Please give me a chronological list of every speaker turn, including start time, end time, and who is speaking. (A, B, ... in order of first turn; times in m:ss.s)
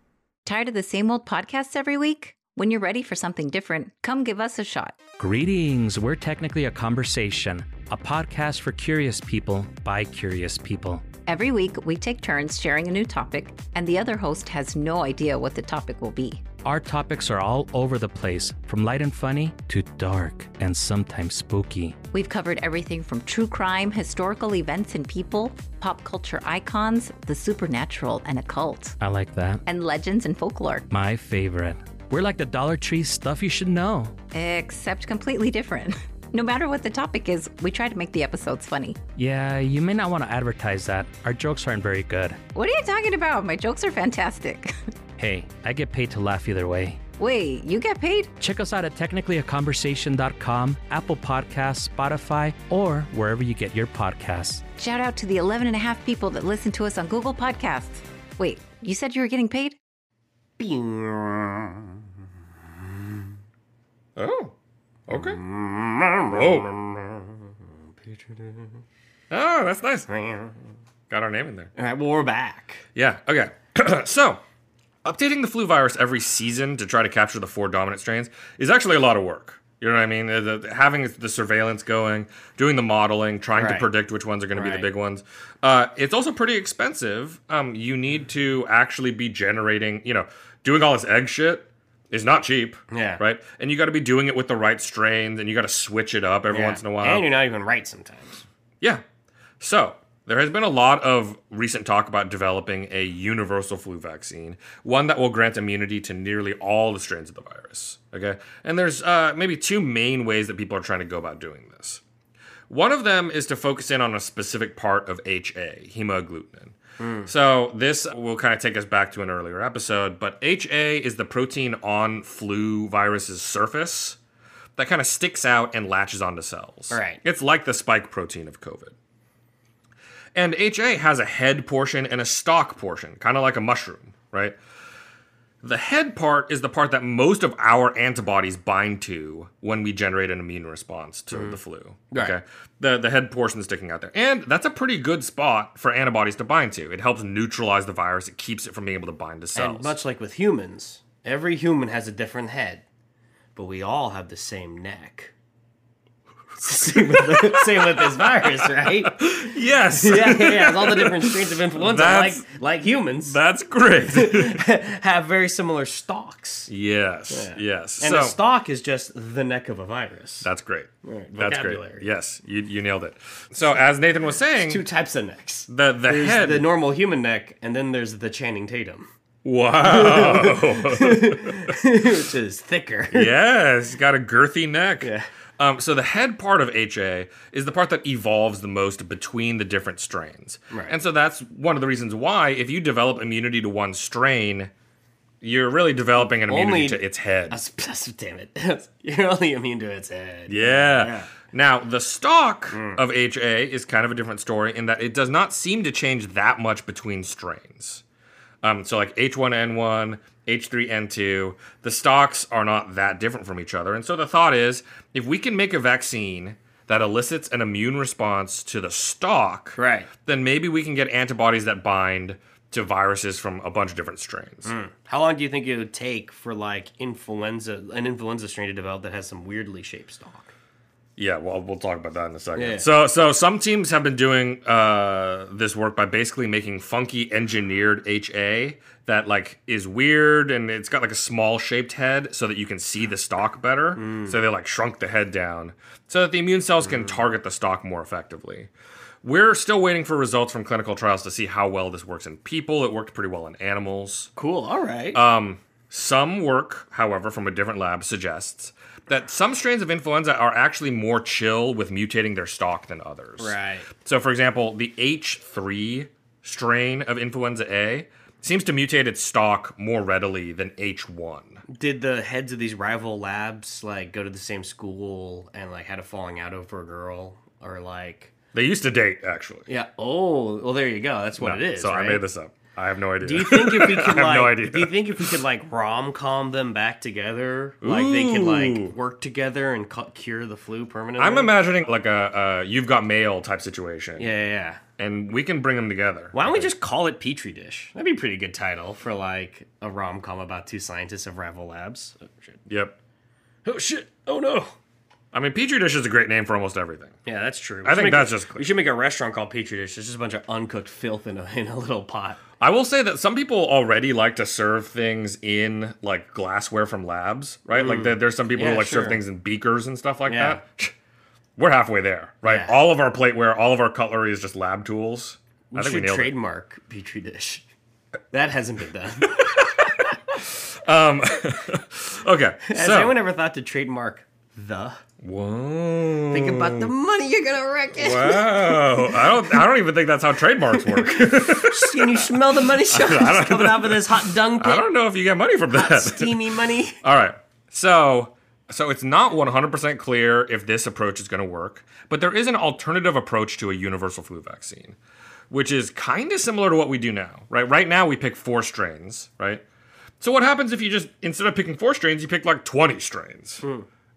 0:00.4-0:05.0 A
0:05.2-0:11.1 B
0:11.2-0:16.4 A
0:16.6-0:22.0 B
0:22.1-0:29.0 A
0:29.0-0:29.6 B
0:29.7-0:30.9 A
0:30.9-0:34.2 B
0:34.3-0:39.0 A
0:39.2-0:42.4 B
0:42.6-0:44.8 A
0:45.2-0:47.0 B
0:47.2-0:48.3 A
0:48.4-0:54.6 B
0:54.8-0:59.8 A
1:00.6-1:02.0 C
1:02.7-1:03.3 C
1:04.2-1:04.5 D
1:05.1-1:05.4 D
1:05.1-1:08.8 C
1:06.3-1:06.7 D
1:09.3-1:10.1 D
1:10.1-1:10.6 C
1:11.1-1:11.7 D
1:11.8-1:12.8 C
1:13.0-1:14.4 D
1:15.0-1:37.3 D
1:23.6-1:23.9 C
1:24.5-1:24.9 C
1:32.9-1:33.2 C
1:36.5-1:38.4 C
1:39.6-1:52.0 D
1:52.7-2:04.2 D
1:57.0-1:57.3 C
2:04.8-2:09.0 D
2:06.9-2:07.2 C
2:10.4-2:14.6 D
2:15.6-2:29.9 D
2:21.3-2:21.6 C
2:22.1-2:22.4 C
2:29.6-2:32.8 C
2:33.6-2:35.3 C
2:36.6-2:39.3 C
2:36.7-2:42.4 D
2:40.0-2:43.4 C
2:43.2-2:44.6 D
2:44.1-2:46.7 C
2:46.7-2:48.4 D
2:47.3-2:50.5 C
2:50.4-2:54.8 D
2:51.0-2:52.1 C
2:54.6-2:59.1 C
2:55.7-2:56.7 D
2:59.4-3:01.8 D
2:59.8-3:03.3 C
3:03.1-3:14.7 D
3:05.0-3:05.3 C
3:15.4-3:17.6 D
3:16.2-3:21.3 C
3:20.5-3:28.0 D
3:22.7-3:23.0 C
3:28.6-3:44.7 D
3:39.8-3:40.1 C
3:44.6-3:50.5 C
3:51.2-4:08.7 D
3:52.6-3:52.9 C
4:04.0-4:04.4 C
4:06.8-4:07.2 C
4:09.2-4:14.3 D
4:14.4-4:15.2 C
4:15.1-4:31.6 D
4:23.4-4:23.9 C
4:31.7-4:38.3 C
4:38.5-4:39.7 D
4:39.7-4:42.2 C
4:41.4-4:45.4 D
4:43.2-4:51.5 C
4:47.8-4:48.9 D
4:51.2-4:54.3 D
4:54.2-4:54.8 C
4:55.0-4:56.7 D
4:56.3-5:02.6 C
5:02.7-5:03.0 D
5:03.6-5:04.8 C
5:05.3-5:07.2 D
5:07.3-5:12.4 C
5:07.8-5:08.7 D
5:12.6-5:20.9 D
5:17.8-5:19.2 C
5:20.3-5:20.6 C
5:21.6-5:26.4 D
5:22.4-5:22.8 C
5:25.7-5:27.6 C
5:28.3-5:30.0 C
5:29.2-5:29.8 D
5:30.4-5:33.2 D
5:32.7-5:35.0 C
5:35.2-5:36.9 D
5:36.3-5:39.6 C
5:37.9-5:46.5 D
5:40.8-5:44.9 C
5:45.7-5:47.0 C
5:47.0-5:55.0 D
5:55.5-5:59.6 D
6:00.2-6:03.6 D
6:03.6-6:03.9 C